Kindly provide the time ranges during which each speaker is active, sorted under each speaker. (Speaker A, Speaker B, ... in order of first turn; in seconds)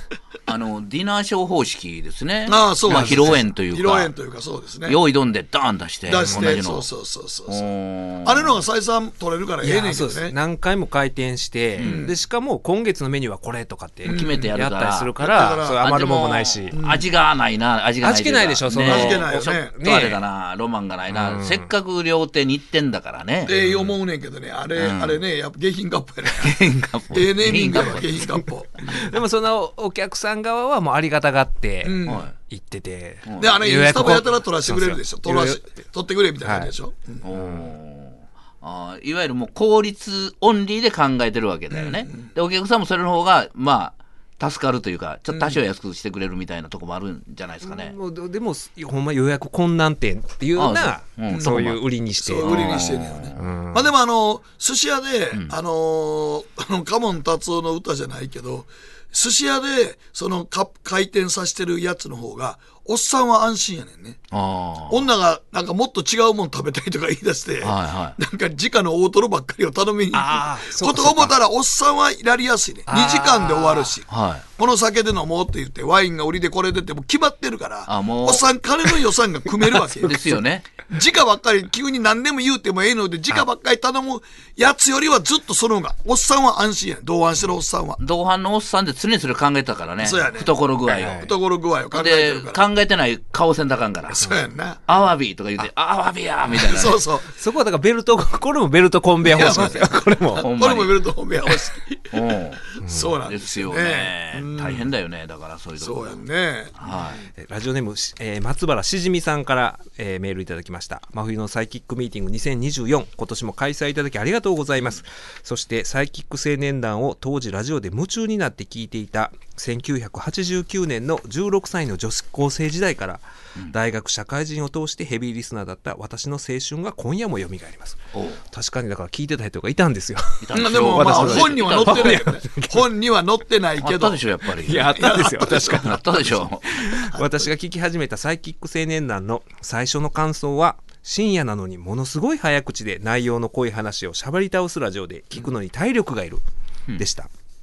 Speaker A: 0.5-4.1, 4.8-6.9, 7.5-8.6, 11.8-12.1, 14.0-15.1, 15.8-23.6, 24.7-25.2, 26.2-28.2, 32.0-32.3, 33.2-33.5, 37.2-47.9, 50.5-51.8, 52.4-53.5, 64.3-65.0, 67.6-68.2, 74.1-74.4, 77.9-78.5, 79.8-80.7, 88.0-91.3, 91.9-94.3, 94.9-97.0, 100.4-101.0, 102.1-102.7, 103.2-106.2, 106.8-107.2, 128.1-128.4, 130.4-132.2, 133.8-134.9, 135.6-136.8
Speaker B: 2.5-5.0, 6.0-7.7, 8.2-10.3, 11.8-12.2, 14.0-14.5, 15.2-15.8, 16.7-17.1, 18.7-19.7, 23.4-26.6, 27.1-28.9, 31.8-32.3, 33.4-37.2, 41.7-42.3, 45.3-45.6, 51.3-51.6, 52.2-64.2, 64.9-88.0, 90.0-92.6, 94.1-94.8, 96.5-97.3, 99.2-104.9, 105.8-106.8, 130.5-134.2, 134.8-136.5, 137.1-137.5
Speaker C: 2.9-3.5, 6.2-6.6, 9.6-16.8, 18.0-20.2, 21.1-21.7, 28.9-35.8, 36.4-36.7, 37.3-37.6, 47.6-52.8, 53.4-53.9, 70.1-71.3, 72.9-73.9, 90.9-91.3, 97.3-100.4, 102.8-103.1, 107.4-128.0, 128.5-132.8, 134.6-136.2, 136.7-146.4, 146.9-147.3